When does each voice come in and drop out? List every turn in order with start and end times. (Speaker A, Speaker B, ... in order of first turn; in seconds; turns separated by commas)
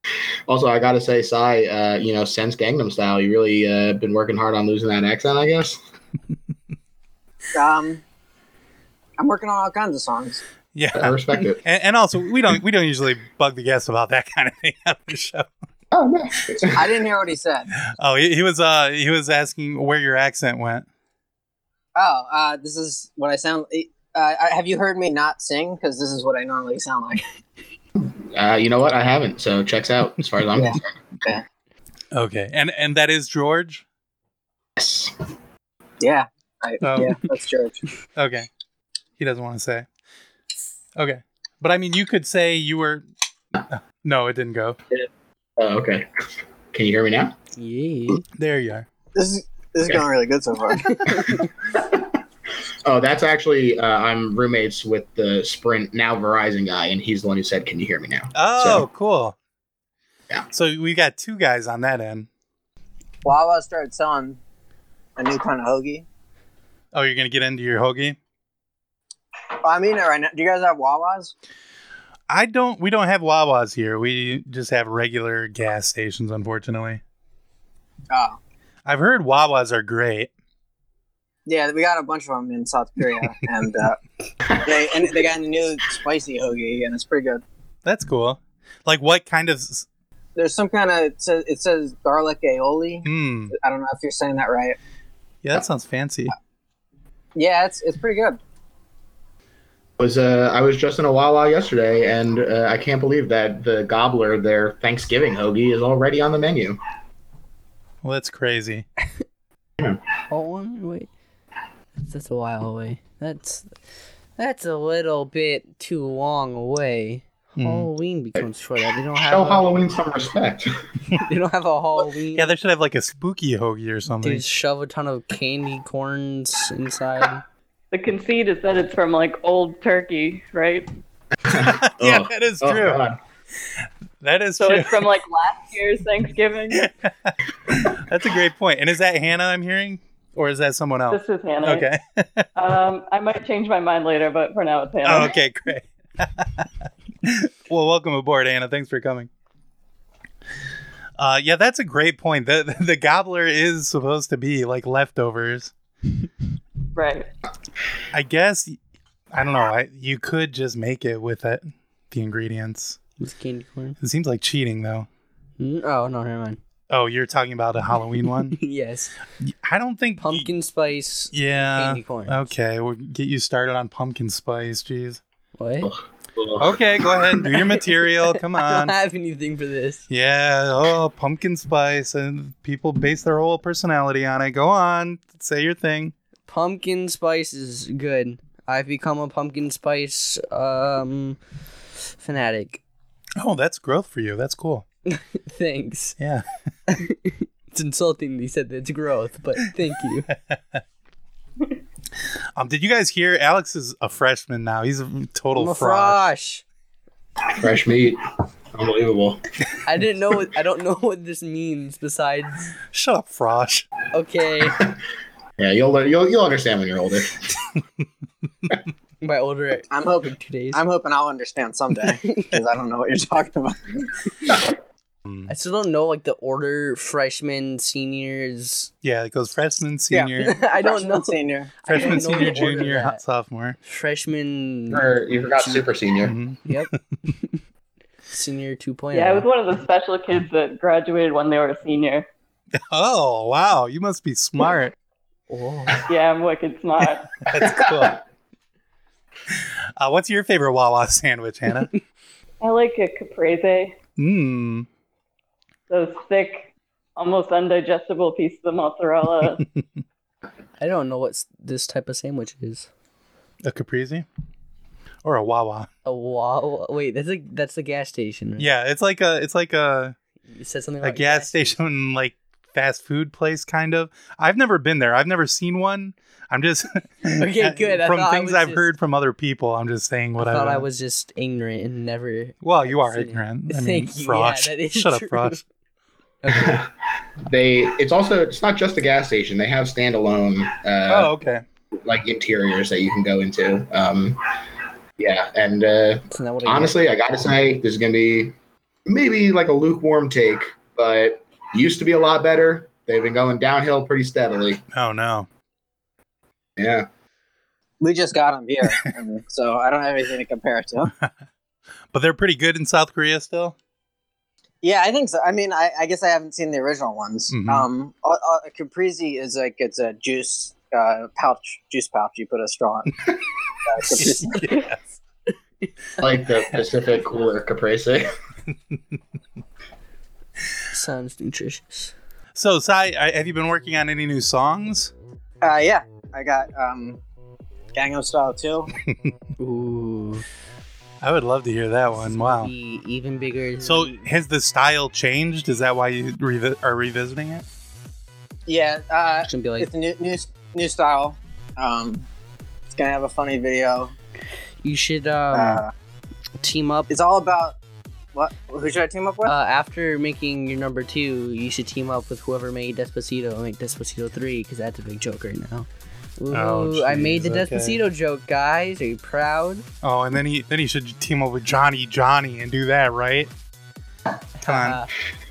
Speaker A: 0.5-5.8, Speaker B: 7.5-8.0, Speaker B: 9.2-10.4, Speaker C: 10.7-15.5, Speaker A: 10.9-11.6, Speaker A: 15.9-16.9, Speaker B: 16.7-17.7, Speaker C: 17.9-20.9, Speaker B: 22.0-27.2, Speaker A: 28.0-30.9, Speaker B: 30.6-31.4, Speaker C: 32.1-33.9, Speaker A: 34.8-35.1, Speaker B: 36.0-37.8, Speaker C: 36.8-37.2, Speaker C: 38.1-38.5, Speaker C: 39.2-39.9, Speaker C: 41.0-43.0, Speaker C: 43.7-44.8, Speaker A: 44.9-46.1, Speaker A: 46.7-47.4, Speaker D: 47.5-48.2, Speaker C: 48.4-48.9, Speaker B: 49.1-51.0, Speaker D: 50.9-51.5, Speaker A: 51.7-52.1, Speaker A: 52.9-58.8, Speaker C: 58.3-59.4, Speaker C: 60.5-62.3, Speaker B: 63.2-64.4, Speaker B: 65.2-66.0, Speaker C: 66.9-68.2, Speaker B: 69.6-71.3, Speaker C: 72.3-77.0, Speaker B: 78.1-78.4, Speaker C: 78.8-80.3, Speaker B: 81.5-84.0, Speaker B: 84.6-87.4, Speaker C: 87.8-89.9, Speaker B: 90.4-94.8, Speaker C: 93.0-93.5, Speaker C: 95.4-96.3, Speaker B: 97.3-98.4, Speaker A: 100.0-106.8, Speaker C: 108.0-108.9, Speaker D: 110.3-111.1, Speaker D: 112.0-113.7, Speaker D: 114.4-119.7, Speaker C: 117.6-117.9, Speaker A: 119.2-120.7, Speaker D: 121.2-122.5, Speaker C: 122.3-124.5, Speaker D: 124.2-127.4, Speaker E: 127.9-130.9, Speaker A: 131.4-133.2, Speaker C: 131.6-133.0, Speaker C: 134.2-135.1, Speaker E: 134.6-136.8, Speaker C: 136.7-142.5, Speaker E: 141.1-141.9, Speaker E: 142.6-145.3, Speaker C: 145.0-146.7, Speaker C: 147.2-149.3, Speaker C: 151.2-155.7, Speaker E: 156.9-157.3, Speaker C: 158.1-158.8, Speaker C: 159.3-163.0, Speaker D: 163.2-164.0, Speaker C: 164.0-165.1, Speaker D: 165.6-166.6, Speaker C: 166.9-168.6, Speaker D: 168.5-169.1, Speaker C: 169.4-170.5, Speaker D: 170.2-172.5, Speaker C: 171.3-175.2, Speaker D: 175.5-175.9, Speaker A: 175.9-176.7, Speaker C: 176.6-178.9, Speaker D: 178.2-180.0, Speaker C: 180.1-186.1, Speaker D: 186.5-191.4, Speaker D: 192.2-192.8, Speaker C: 193.4-194.9, Speaker D: 195.1-196.2, Speaker C: 196.2-196.5, Speaker D: 196.9-200.3, Speaker C: 200.3-200.8, Speaker C: 202.6-206.3, Speaker D: 205.5-206.6, Speaker A: 207.5-208.2, Speaker A: 208.7-209.4, Speaker D: 209.8-212.8, Speaker C: 212.9-213.9, Speaker D: 214.1-214.8, Speaker A: 215.6-217.4, Speaker D: 219.2-220.8, Speaker B: 219.9-224.0, Speaker C: 225.2-225.5, Speaker D: 225.5-228.9, Speaker C: 229.0-230.5, Speaker B: 230.1-232.5, Speaker D: 230.5-233.2, Speaker C: 231.9-233.8, Speaker D: 233.8-235.0, Speaker A: 234.9-236.3, Speaker C: 236.2-237.2, Speaker D: 238.3-239.5, Speaker E: 239.1-242.2, Speaker C: 242.8-244.9, Speaker D: 245.5-246.0, Speaker E: 246.1-247.3, Speaker C: 247.4-248.2, Speaker A: 247.6-248.1, Speaker C: 249.5-251.9, Speaker E: 252.6-253.9, Speaker C: 254.2-254.9, Speaker E: 255.9-259.6, Speaker D: 260.8-262.9, Speaker C: 263.6-264.2, Speaker C: 265.2-265.9, Speaker D: 266.0-268.7, Speaker C: 268.6-270.1, Speaker D: 270.5-271.8, Speaker C: 271.0-280.9, Speaker D: 277.4-278.9, Speaker D: 280.4-285.6, Speaker C: 282.6-285.6, Speaker D: 286.4-286.8, Speaker A: 286.5-286.9, Speaker A: 287.5-291.3, Speaker C: 291.1-291.6, Speaker A: 292.0-294.4, Speaker A: 295.2-298.5, Speaker D: 296.3-297.0, Speaker A: 299.1-304.8, Speaker C: 304.9-305.5, Speaker A: 306.8-307.1, Speaker B: 308.0-311.1, Speaker C: 312.1-313.8, Speaker B: 314.8-323.1, Speaker C: 317.5-317.9, Speaker B: 323.9-324.6, Speaker C: 324.1-325.0, Speaker A: 326.2-328.3, Speaker D: 330.9-332.1, Speaker C: 332.5-335.1, Speaker B: 335.6-337.2, Speaker B: 337.9-338.9, Speaker C: 339.1-339.3, Speaker D: 339.6-340.5, Speaker C: 341.2-342.7, Speaker D: 342.2-344.3, Speaker C: 343.8-347.6, Speaker B: 348.7-352.2, Speaker D: 349.4-349.9, Speaker B: 352.9-354.1, Speaker D: 354.8-355.8, Speaker B: 355.5-355.9, Speaker D: 356.6-357.1, Speaker B: 357.1-357.8, Speaker B: 358.3-359.5, Speaker D: 359.5-365.9, Speaker D: 366.4-369.9, Speaker C: 366.5-368.0, Speaker C: 370.0-373.5, Speaker D: 374.6-375.1, Speaker C: 374.6-375.0